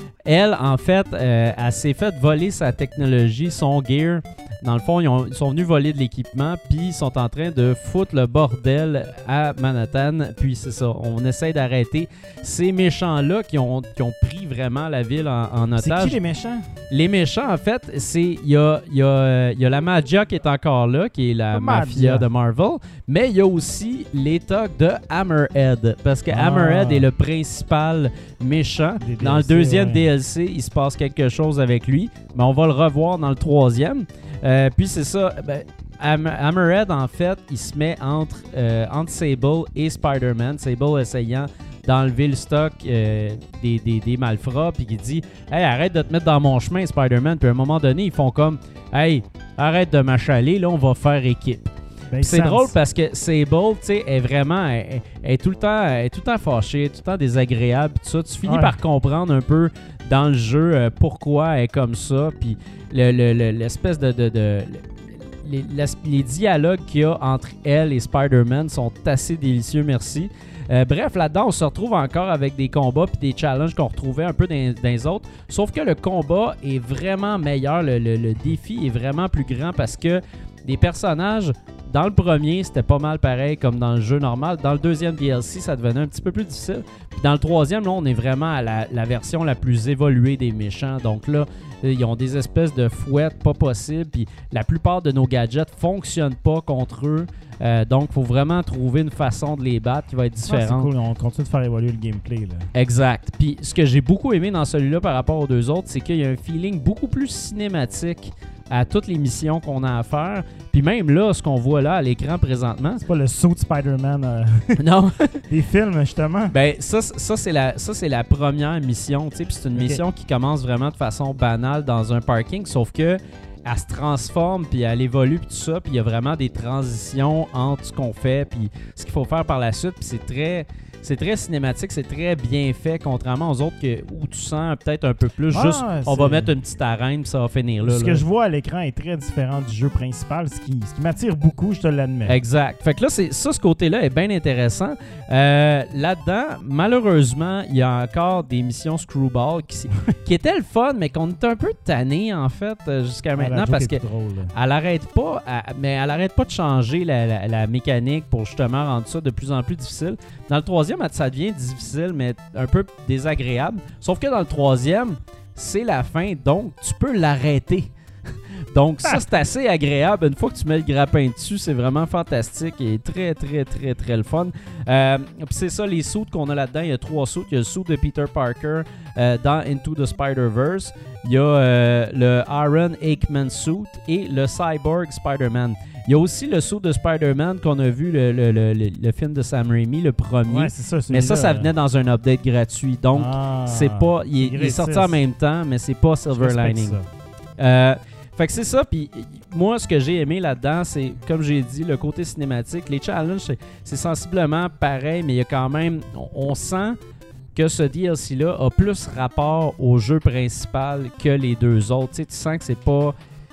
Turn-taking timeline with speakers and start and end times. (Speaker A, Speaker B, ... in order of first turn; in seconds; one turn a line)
Speaker A: 0.2-16.2
Speaker B: 15.8-16.6
Speaker A: 16.9-51.6
Speaker B: 21.5-22.3
Speaker B: 26.3-27.1
Speaker B: 29.0-30.0
Speaker B: 52.1-52.7
Speaker A: 52.2-100.9
Speaker B: 58.4-58.7
Speaker B: 100.5-102.7
Speaker A: 102.7-113.0
Speaker B: 113.0-114.8
Speaker A: 114.8-115.4
Speaker B: 115.5-116.5
Speaker A: 116.5-138.2
Speaker B: 119.8-120.0
Speaker B: 135.5-136.5
Speaker B: 137.8-142.3
Speaker A: 142.2-154.0
Speaker B: 153.4-154.5
Speaker A: 154.5-197.0
Speaker B: 190.5-191.7
Speaker B: 193.1-195.2
Speaker B: 196.3-197.1
Speaker A: 197.6-207.0
Speaker A: 207.5-213.2